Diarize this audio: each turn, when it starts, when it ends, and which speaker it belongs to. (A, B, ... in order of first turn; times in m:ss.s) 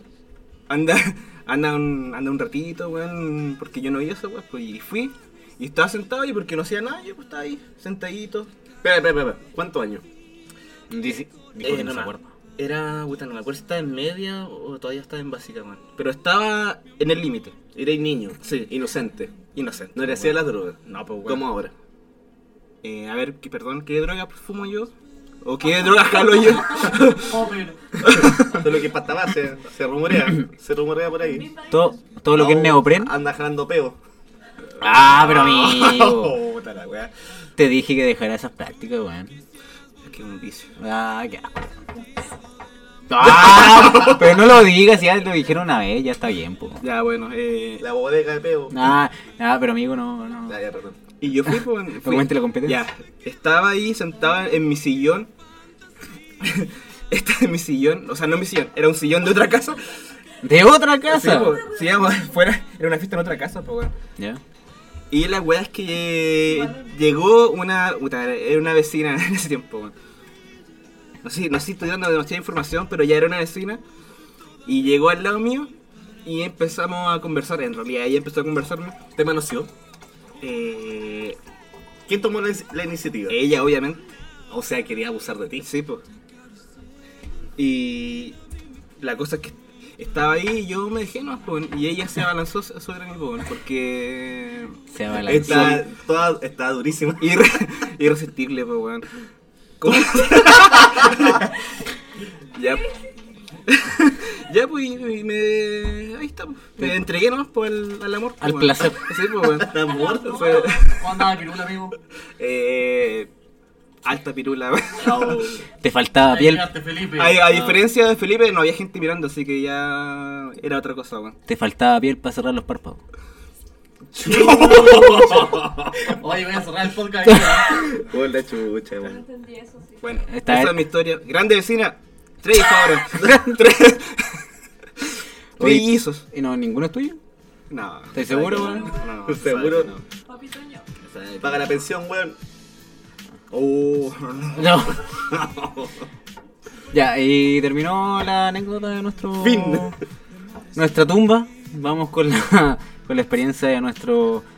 0:00.7-0:08.5 A
0:08.8-0:10.0 B
0:10.9-0:12.3 C
0:11.6-0:17.6 A
0:17.7-0:19.3 B
0:18.4-0:18.7 A
0:19.5-0:21.5 A
0:19.9-0:21.7 B
0:22.8-0:24.9 A
0:25.4-0:27.4 A
0:27.2-0:28.0 D
0:28.0-0:28.6 A
0:28.5-0:31.5 B
0:31.2-0:32.0 E
0:31.7-0:33.1 C
0:32.3-0:34.0 B
0:34.8-0:36.4 C
0:35.2-0:37.1 B
0:35.4-0:35.7 A
0:37.6-0:39.4 C
0:40.0-0:40.7 A
0:40.8-0:41.7 C
0:43.1-0:46.8 C
0:46.8-0:47.8 A
0:47.8-0:48.9 B
0:48.7-0:50.6 C
0:50.5-0:51.0 B
0:51.2-0:55.3 A
0:52.0-0:52.8 C
0:56.4-0:59.9 A
1:00.4-1:01.6 C
1:01.1-1:03.9 A
1:05.1-1:09.9 A
1:11.2-1:13.8 A
1:14.6-1:15.7 A
1:16.2-1:19.0 A
1:19.2-1:19.7 B
1:20.4-1:21.4 A
1:22.0-1:23.4 B
1:23.3-1:24.0 A
1:24.5-1:25.7 B
1:25.6-1:26.0 A
1:27.6-1:28.4 A
1:29.0-1:35.8 A
1:34.9-1:35.8 C
1:35.2-1:37.4 B
1:37.2-1:39.1 A
1:39.8-1:41.5 A
1:40.1-1:41.1 B
1:42.5-1:42.9 A
1:43.7-1:51.0 A
1:46.8-1:47.0 C
1:48.4-1:49.1 C
1:49.6-1:50.8 B
1:49.8-1:50.9 E
1:50.8-1:52.0 D
1:52.4-1:53.3 A
1:54.0-1:55.6 A
1:55.0-1:55.6 B
1:55.8-1:56.7 C
1:56.2-1:57.7 D
1:57.2-2:01.4 A
2:01.5-2:03.0 C
2:04.1-2:05.8 A
2:04.2-2:05.7 B
2:06.1-2:08.0 D
2:07.9-2:09.2 B
2:09.0-2:10.2 E
2:10.0-2:14.4 A
2:10.3-2:10.8 C
2:15.6-2:16.2 A
2:15.6-2:17.2 C
2:17.7-2:20.0 A
2:18.1-2:19.0 C
2:19.2-2:19.9 B
2:20.2-2:20.9 E
2:21.0-2:21.8 A
2:21.4-2:22.4 B
2:23.5-2:25.4 A
2:24.5-2:25.0 C
2:26.9-2:30.0 C
2:29.4-2:29.9 B
2:30.7-2:34.4 C